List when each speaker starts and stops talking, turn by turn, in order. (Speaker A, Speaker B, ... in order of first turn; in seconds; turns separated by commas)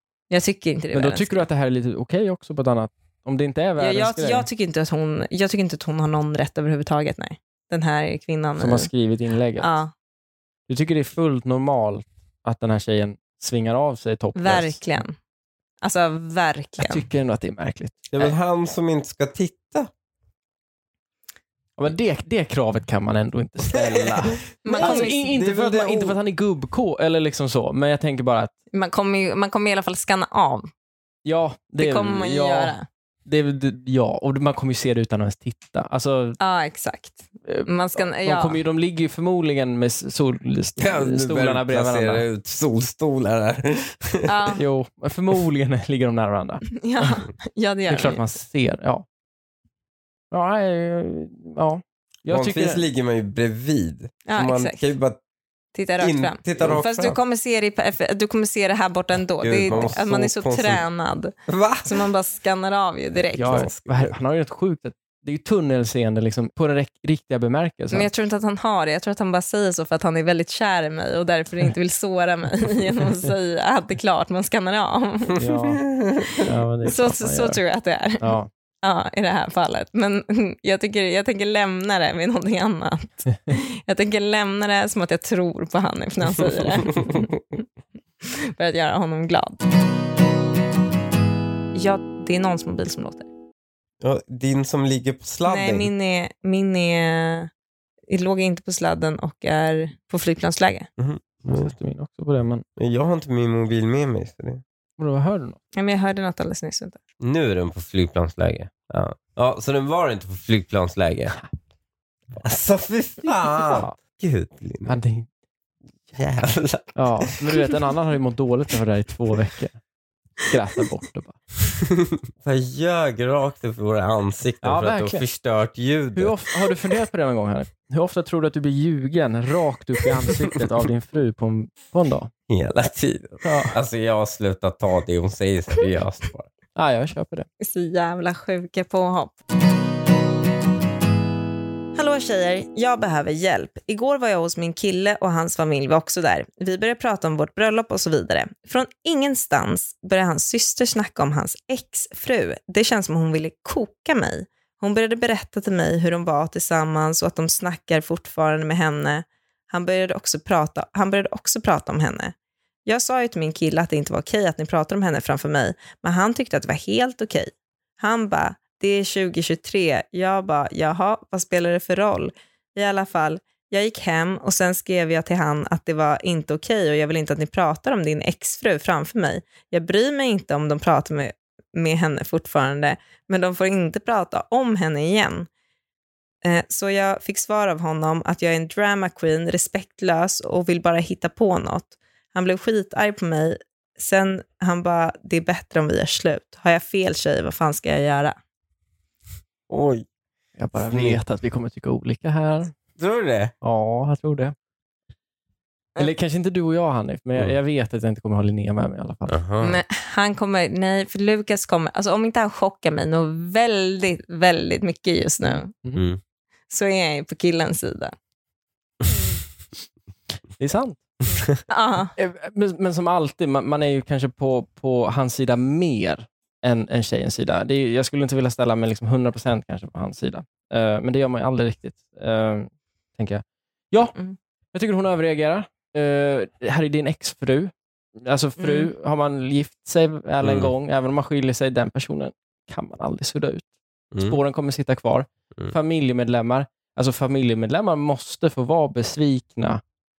Speaker A: 0.3-1.4, Speaker B: 0.9-4.5, Speaker A: 3.8-8.9, Speaker B: 8.6-9.7, Speaker A: 9.6-9.9, Speaker B: 10.7-14.9, Speaker A: 14.3-15.2, Speaker A: 15.8-17.0, Speaker B: 16.8-18.3, Speaker C: 18.1-19.9, Speaker B: 21.8-28.5, Speaker C: 24.3-26.2, Speaker A: 24.6-25.2, Speaker A: 28.7-30.7, Speaker B: 31.2-36.4, Speaker A: 31.8-32.8, Speaker A: 36.4-38.6, Speaker B: 37.5-42.2, Speaker C: 40.8-44.3, Speaker A: 44.2-44.6, Speaker B: 44.5-47.1, Speaker A: 46.7-48.2, Speaker B: 47.9-49.0, Speaker B: 50.3-52.8, Speaker C: 52.3-55.2, Speaker A: 54.3-54.8, Speaker A: 55.7-61.3, Speaker C: 56.0-57.2, Speaker C: 59.4-60.8, Speaker C: 61.5-61.9, Speaker A: 61.8-63.7, Speaker B: 63.4-68.1, Speaker C: 63.4-64.1, Speaker A: 67.9-75.4, Speaker B: 75.4-75.8, Speaker C: 75.4-76.4, Speaker B: 76.4-77.6, Speaker A: 76.8-87.3, Speaker B: 78.2-78.5, Speaker A: 88.2-89.6, Speaker A: 91.7-93.3, Speaker C: 94.0-95.9, Speaker A: 95.4-97.5, Speaker A: 98.1-100.9, Speaker C: 101.0-101.7, Speaker B: 101.5-102.6, Speaker C: 102.8-104.6, Speaker B: 105.0-105.6, Speaker A: 105.7-107.0, Speaker C: 107.2-111.3, Speaker C: 112.4-115.0, Speaker B: 113.5-114.0, Speaker B: 114.8-115.3, Speaker C: 116.1-117.6, Speaker B: 117.0-119.8, Speaker B: 120.5-121.4, Speaker C: 121.8-126.9, Speaker B: 124.6-125.2, Speaker B: 126.1-132.3, Speaker C: 132.5-136.5, Speaker B: 133.4-133.7, Speaker B: 136.7-137.4, Speaker A: 137.6-139.4, Speaker A: 141.9-162.3, Speaker A: 162.8-185.5, Speaker A: 186.4-198.4, Speaker C: 199.7-200.1, Speaker B: 200.6-202.7, Speaker C: 200.8-201.2, Speaker C: 203.0-203.5, Speaker B: 203.6-204.5, Speaker B: 206.0-209.4, Speaker C: 209.3-209.8, Speaker A: 209.6-215.7, Speaker B: 215.4-216.0, Speaker C: 215.9-216.2, Speaker A: 216.7-218.1, Speaker B: 220.6-221.1, Speaker A: 221.7-222.1, Speaker B: 222.2-234.1, Speaker B: 234.7-243.7, Speaker A: 238.6-238.9, Speaker C: 240.4-240.7, Speaker C: 244.1-244.4, Speaker B: 244.2-249.8